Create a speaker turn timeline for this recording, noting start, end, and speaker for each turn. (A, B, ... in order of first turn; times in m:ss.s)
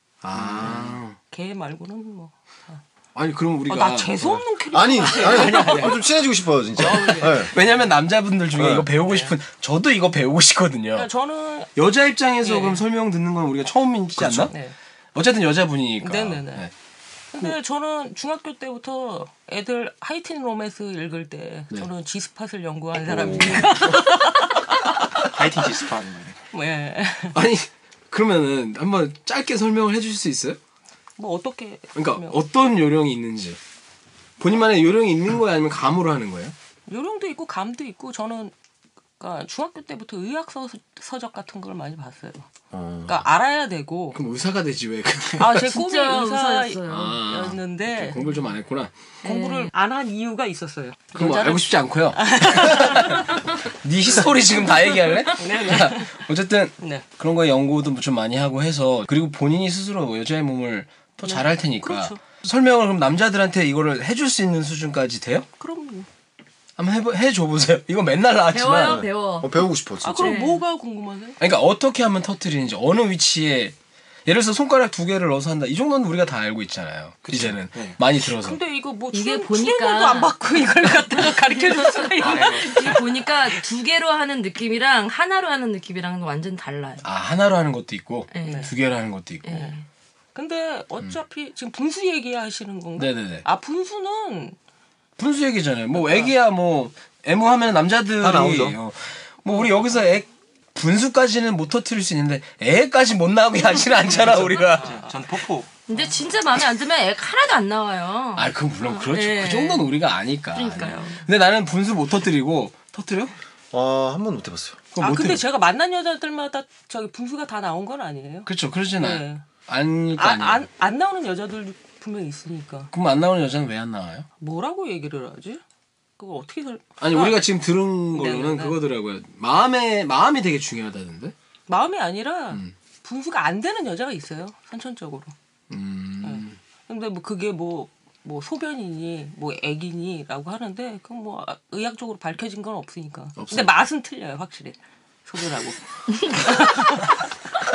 0:00.2-0:01.2 A
0:00.3-0:01.0 B
0:01.3-0:02.8 C
0:03.2-0:04.1 A
0:03.7-0:06.1 C
0:04.2-0:07.6 B
0:06.8-0:07.6 C
0:06.8-0:11.1 A
0:08.5-0:08.9 B
0:09.1-0:09.4 C
0:10.9-0:11.7 C
0:11.8-0:14.6 A
0:12.4-0:12.8 C
0:14.5-0:14.8 C
0:15.2-0:16.7 A
0:16.0-0:16.7 C
0:17.3-0:25.2 C
0:23.0-0:24.0 B
0:25.2-0:26.4 D
0:26.5-0:27.4 C
0:27.3-0:30.6 A
0:31.2-0:32.4 C
0:32.0-0:33.6 A
0:34.4-0:36.6 A
0:36.9-0:38.5 C
0:39.2-0:42.5 C
0:42.7-0:43.3 B
0:43.1-0:44.2 C
0:44.1-0:45.7 A
0:45.4-0:48.4 C
0:45.7-0:47.2 E
0:46.9-0:48.9 A
0:49.2-0:53.4 C
0:49.2-0:49.7 E
0:51.2-1:05.5 A
0:54.1-0:56.2 C
0:56.8-0:57.0 C
1:01.2-1:02.2 C
1:05.6-1:06.1 C
1:06.8-1:09.0 A
1:08.5-1:09.7 E
1:08.8-1:10.4 B
1:10.0-1:11.4 C
1:10.2-1:10.6 E
1:11.4-1:13.7 A
1:14.3-1:18.6 A
1:17.2-1:18.0 D
1:18.3-1:23.3 C
1:19.1-1:20.4 E
1:21.1-1:27.1 E
1:22.2-1:23.0 D
1:27.0-1:29.5 A
1:28.3-1:28.7 E
1:28.4-1:28.7 C
1:29.4-1:29.8 E
1:30.4-1:34.6 C
1:33.0-1:33.5 A
1:35.2-1:44.9 A
1:35.9-1:36.3 C
1:38.2-1:38.8 B
1:44.1-1:45.7 D
1:44.7-1:45.1 C
1:45.9-1:49.9 E
1:48.4-1:53.3 A
1:50.5-1:51.2 E
1:53.7-1:54.8 B
1:55.0-1:55.4 A
1:55.0-1:59.4 C
1:58.5-2:00.6 A
2:00.2-2:02.9 C
2:02.9-2:04.3 A
2:04.4-2:05.6 C
2:06.2-2:07.5 C
2:07.0-2:11.3 A
2:08.1-2:08.8 C
2:11.7-2:15.3 C
2:15.7-2:16.6 A
2:16.2-2:25.8 C
2:23.4-2:23.7 A
2:26.4-2:27.0 C